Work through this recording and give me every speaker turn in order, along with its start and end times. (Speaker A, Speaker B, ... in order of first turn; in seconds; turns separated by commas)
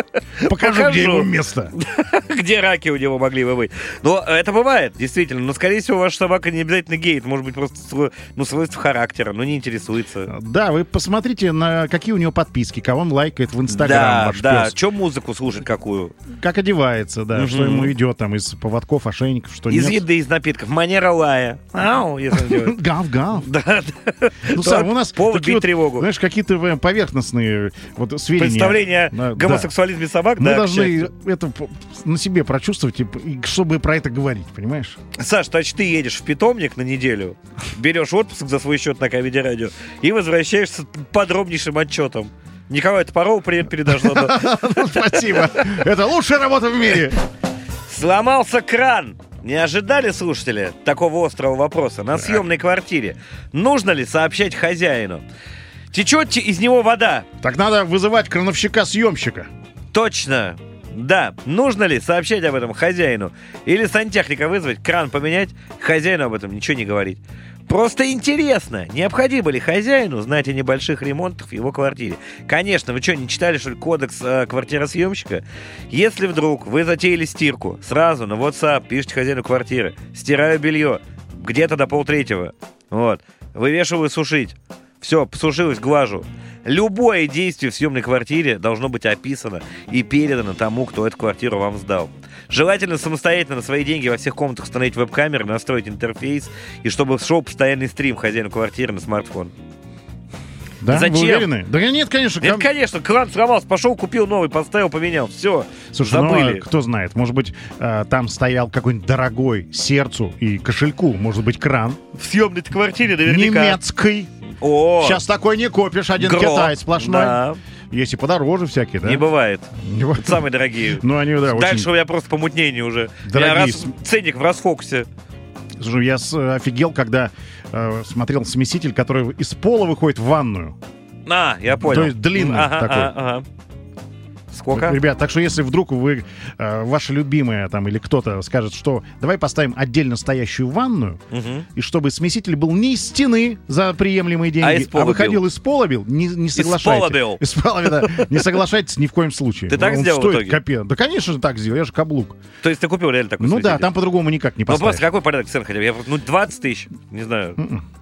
Speaker A: 0.4-10.3, Speaker B: 0.4-1.7, Speaker B: 10.2-14.7, Speaker A: 13.7-16.1, Speaker B: 16.3-20.0, Speaker A: 17.3-17.9, Speaker A: 19.7-22.8, Speaker B: 22.3-23.5, Speaker A: 23.4-26.1, Speaker B: 24.5-29.7, Speaker A: 28.3-31.1, Speaker B: 30.4-35.0, Speaker A: 35.1-45.5, Speaker B: 43.9-47.2, Speaker A: 47.9-55.2, Speaker B: 52.1-52.4, Speaker A: 55.9-57.3, Speaker B: 57.4-59.5, Speaker A: 59.9-99.5, Speaker B: 100.8-102.7, Speaker A: 100.9-101.5, Speaker A: 102.4-106.6, Speaker B: 105.9-112.0, Speaker A: 112.2-113.8, Speaker B: 113.2-114.3, Speaker A: 114.6-115.2, Speaker B: 115.0-119.2, Speaker A: 116.2-117.6, Speaker A: 119.0-125.1, Speaker B: 119.8-120.5, Speaker B: 121.0-121.9, Speaker B: 123.2-123.9, Speaker B: 125.8-130.8, Speaker A: 131.2-133.4, Speaker B: 131.8-133.1, Speaker A: 134.5-135.0, Speaker B: 134.7-141.2, Speaker A: 141.3-141.7, Speaker B: 141.7-152.3, Speaker A: 144.6-145.4, Speaker A: 146.5-147.4, Speaker A: 148.0-148.4, Speaker A: 149.7-150.6, Speaker A: 152.6-153.9, Speaker B: 153.4-155.1, Speaker A: 154.7-157.6, Speaker B: 157.6-157.8